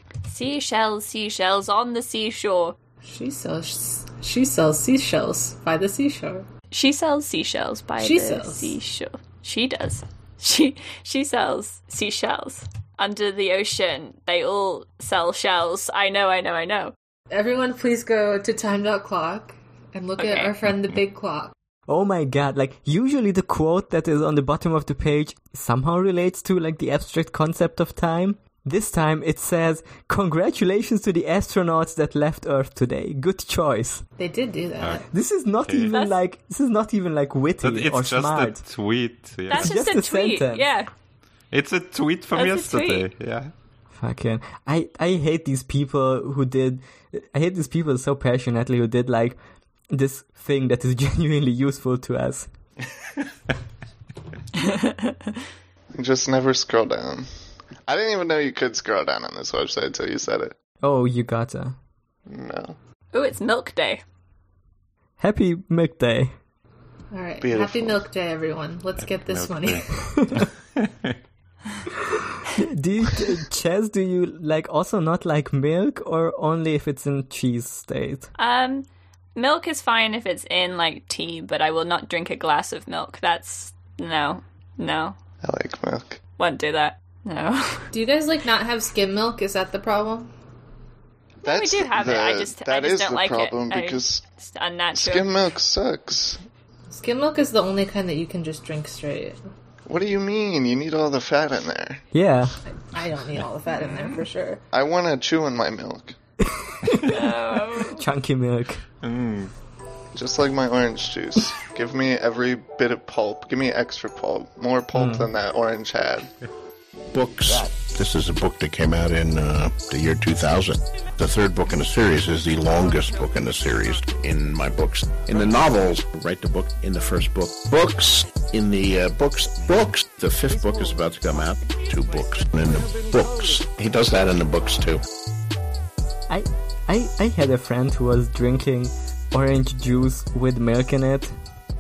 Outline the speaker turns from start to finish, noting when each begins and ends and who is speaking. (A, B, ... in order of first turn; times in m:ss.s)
0:00.2-0:02.8 A
0:03.0-0:06.5 B
0:06.7-0:16.9 A
0:08.0-0:08.8 B
0:17.3-0:21.5 B
0:20.2-0:20.5 A
0:21.9-0:34.0 C
0:34.2-0:35.1 B
0:34.8-0:35.0 D
0:35.1-0:38.6 C
0:35.6-0:35.9 D
0:35.9-0:36.2 A
0:37.6-0:39.8 D
0:39.5-0:40.9 A
0:39.5-0:40.7 C
0:41.5-0:43.5 D
0:42.3-0:43.1 A
0:43.9-0:49.4 C
0:49.9-0:52.5 C
0:54.6-0:55.2 A
0:55.9-0:57.3 E
0:57.9-1:00.5 E
1:00.8-1:01.8 C
1:02.3-1:02.8 E
1:03.1-1:04.0 A
1:05.2-1:06.3 C
1:07.1-1:10.2 B
1:07.4-1:08.0 E
1:09.0-1:11.1 D
1:12.0-1:18.3 C
1:18.4-1:25.2 A
1:25.4-1:26.2 E
1:26.4-1:27.9 A
1:27.9-1:30.3 B
1:31.4-1:34.2 E
1:31.4-1:35.3 A
1:35.0-1:36.4 E
1:36.9-1:39.4 B
1:39.8-1:42.0 E
1:42.1-1:42.6 C
1:42.7-1:44.6 B
1:43.8-1:44.2 A
1:44.7-1:46.1 E
1:46.4-1:48.8 C
1:47.1-1:48.0 A
1:49.0-1:49.5 D
1:50.1-1:56.3 E
1:54.9-1:55.3 C
1:57.1-2:15.0 F
2:16.3-2:21.3 C